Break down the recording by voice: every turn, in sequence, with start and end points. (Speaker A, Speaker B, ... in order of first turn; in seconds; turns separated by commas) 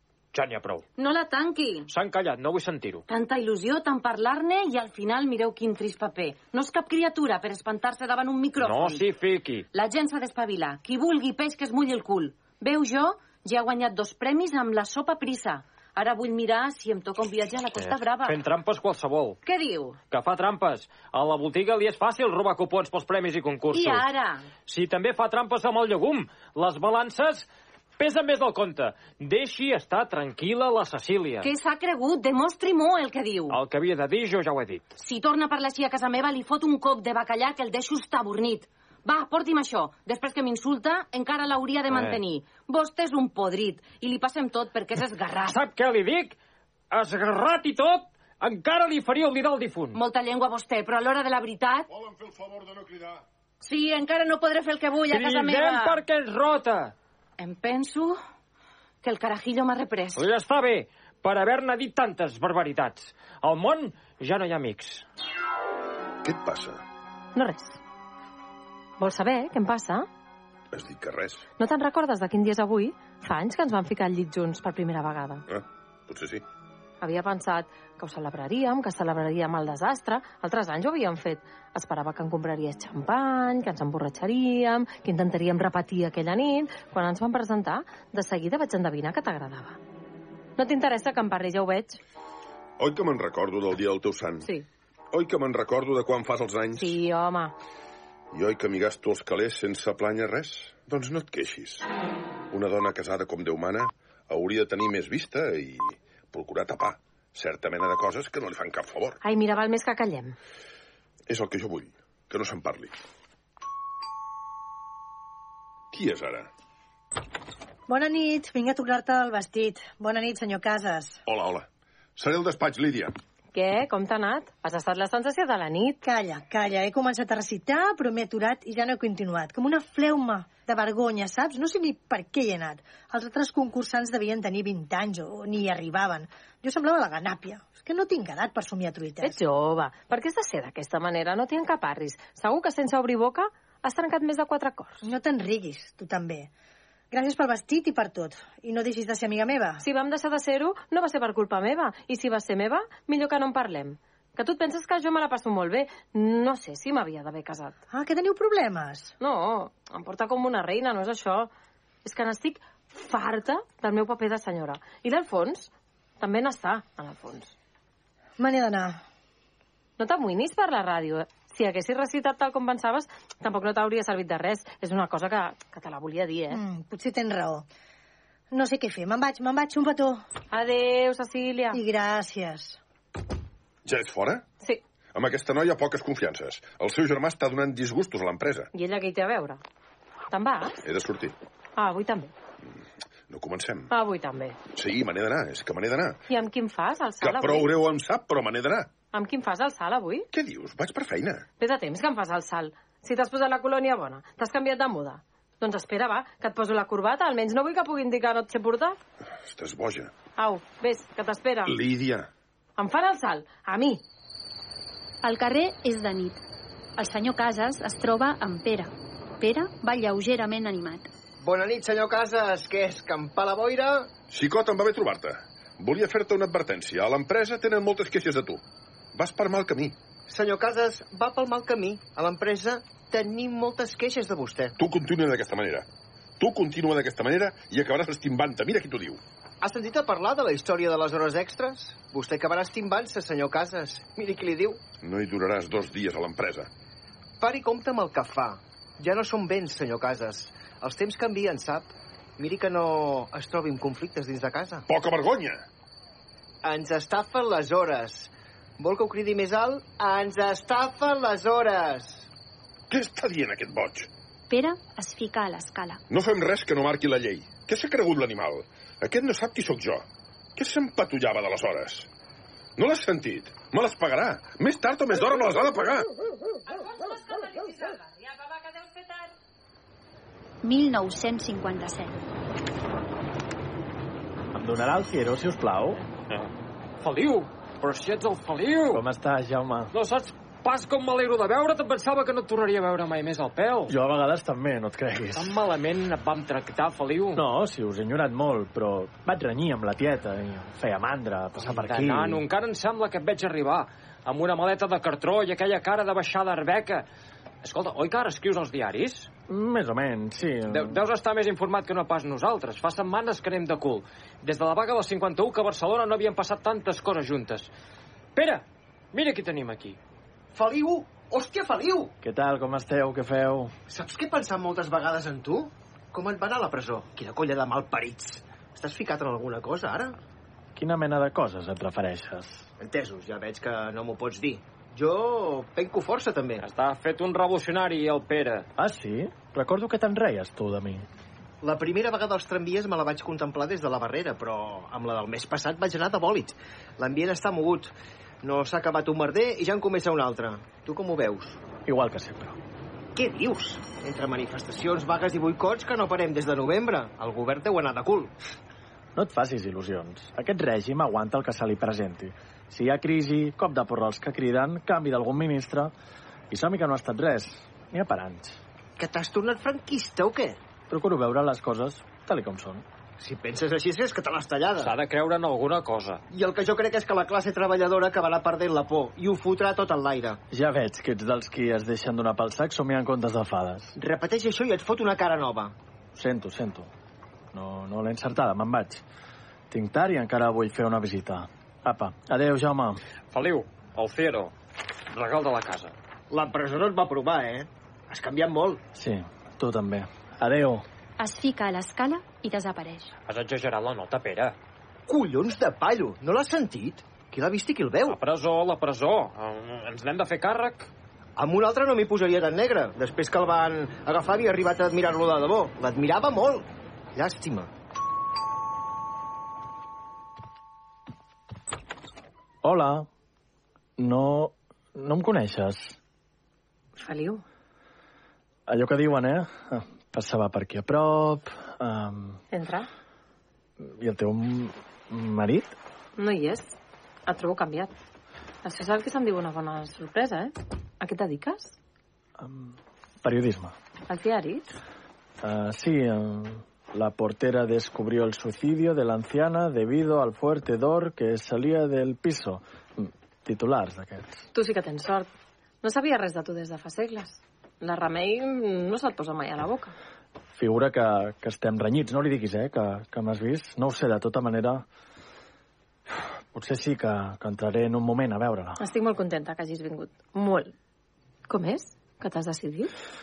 Speaker A: 0.3-0.9, Speaker B: 1.0-1.9, Speaker A: 1.9-3.0, Speaker B: 3.1-9.1, Speaker A: 8.6-9.7, Speaker B: 9.7-18.4, Speaker A: 17.8-19.4, Speaker B: 19.4-20.0, Speaker A: 20.1-24.1, Speaker B: 23.7-24.5, Speaker A: 24.7-31.5, Speaker B: 31.4-33.6, Speaker A: 33.5-34.9, Speaker B: 35.0-45.6, Speaker A: 41.9-42.2, Speaker A: 45.5-46.4, Speaker A: 46.9-50.0, Speaker B: 49.9-51.9, Speaker C: 51.9-53.2, Speaker B: 53.6-56.0, Speaker A: 55.1-56.9, Speaker B: 57.4-58.2, Speaker B: 59.0-60.3, Speaker A: 60.1-65.1, Speaker C: 66.2-66.8, Speaker D: 67.3-67.8, Speaker D: 69.0-70.1, Speaker C: 70.7-71.5, Speaker D: 71.6-75.5, Speaker C: 75.5-76.4, Speaker D: 77.0-89.8, Speaker D: 90.6-92.0, Speaker C: 92.8-94.5, Speaker C: 95.1-97.0, Speaker D: 96.8-97.5, Speaker C: 98.3-101.9, Speaker C: 102.5-109.2, Speaker D: 109.2-110.4, Speaker C: 111.3-112.9, Speaker C: 115.9-116.5, Speaker E: 117.9-121.2, Speaker C: 121.3-123.1, Speaker D: 123.5-126.0, Speaker E: 126.0-139.4, Speaker D: 139.2-145.0, Speaker E: 145.0-146.5, Speaker E: 147.1-149.8, Speaker D: 149.8-157.8, Speaker E: 157.9-159.2, Speaker D: 159.2-161.5, Speaker D: 162.0-167.5, Speaker E: 168.4-169.0, Speaker D: 170.0-176.6, Speaker E: 176.5-177.7, Speaker E: 178.5-180.2, Speaker D: 180.5-181.8, Speaker E: 181.7-182.8, Speaker C: 183.8-184.4, Speaker C: 185.1-188.7, Speaker D: 188.7-189.6, Speaker D: 190.3-190.8, Speaker C: 190.8-191.3, Speaker D: 191.8-192.3, Speaker C: 193.3-193.9, Speaker D: 193.9-194.6, Speaker C: 194.7-196.2, Speaker D: 196.3-197.7, Speaker C: 197.2-198.9, Speaker D: 199.1-200.3, Speaker C: 200.3-201.5, Speaker D: 201.6-209.0, Speaker C: 209.5-210.1, Speaker D: 210.4-211.8, Speaker C: 211.7-212.3, Speaker D: 212.8-214.0, Speaker F: 215.2-216.4, Speaker F: 217.0-221.1, Speaker G: 221.4-224.1, Speaker C: 224.3-228.6, Speaker C: 229.1-230.0, Speaker G: 230.3-234.8, Speaker C: 234.8-235.9, Speaker C: 236.4-239.2, Speaker G: 239.6-244.8, Speaker C: 245.0-246.7, Speaker G: 247.4-254.9, Speaker C: 254.9-255.6, Speaker G: 256.6-262.3, Speaker C: 262.9-264.1, Speaker F: 264.5-266.0, Speaker C: 266.1-270.1, Speaker C: 270.6-272.1, Speaker C: 272.8-276.1, Speaker D: 276.6-279.3, Speaker F: 280.6-282.1, Speaker H: 284.5-286.0, Speaker A: 286.3-289.0, Speaker H: 288.9-289.9, Speaker A: 289.9-293.9, Speaker H: 293.9-295.6, Speaker A: 295.4-297.4, Speaker H: 297.3-302.4, Speaker A: 301.6-307.1, Speaker A: 307.6-309.3, Speaker H: 309.5-311.0, Speaker A: 310.7-317.7, Speaker A: 318.4-320.0, Speaker G: 320.5-322.1, Speaker H: 322.2-323.7, Speaker G: 323.9-330.2, Speaker H: 330.8-332.7, Speaker G: 332.8-336.6, Speaker A: 336.6-338.7, Speaker H: 338.8-341.1, Speaker G: 341.6-351.6, Speaker H: 351.9-352.6, Speaker G: 353.1-358.3, Speaker H: 359.1-365.9, Speaker H: 366.5-368.6, Speaker G: 369.0-370.6, Speaker H: 370.9-372.9, Speaker G: 373.2-374.9, Speaker A: 374.8-376.2, Speaker G: 376.3-380.4, Speaker H: 380.5-383.9, Speaker G: 384.0-385.8, Speaker H: 386.1-386.9, Speaker H: 387.5-389.0, Speaker H: 389.7-393.0, Speaker A: 393.3-394.5, Speaker A: 395.1-395.9, Speaker G: 396.3-398.8, Speaker H: 398.9-400.9, Speaker F: 401.2-403.1, Speaker A: 403.3-404.6, Speaker G: 405.1-408.2, Speaker A: 408.1-410.9, Speaker G: 411.4-417.7, Speaker H: 422.6-423.1, Speaker H: 424.0-426.0, Speaker D: 427.0-427.4, Speaker H: 428.7-432.4, Speaker D: 432.5-432.9, Speaker H: 433.8-435.8, Speaker D: 436.2-436.8, Speaker D: 437.3-437.9, Speaker D: 438.6-441.8, Speaker H: 442.4-443.8, Speaker D: 444.1-444.7, Speaker H: 445.4-454.4, Speaker D: 454.5-455.3, Speaker D: 455.8-459.9, Speaker H: 460.5-464.9, Speaker H: 466.5-468.8, Speaker D: 468.8-470.7, Speaker D: 471.5-472.9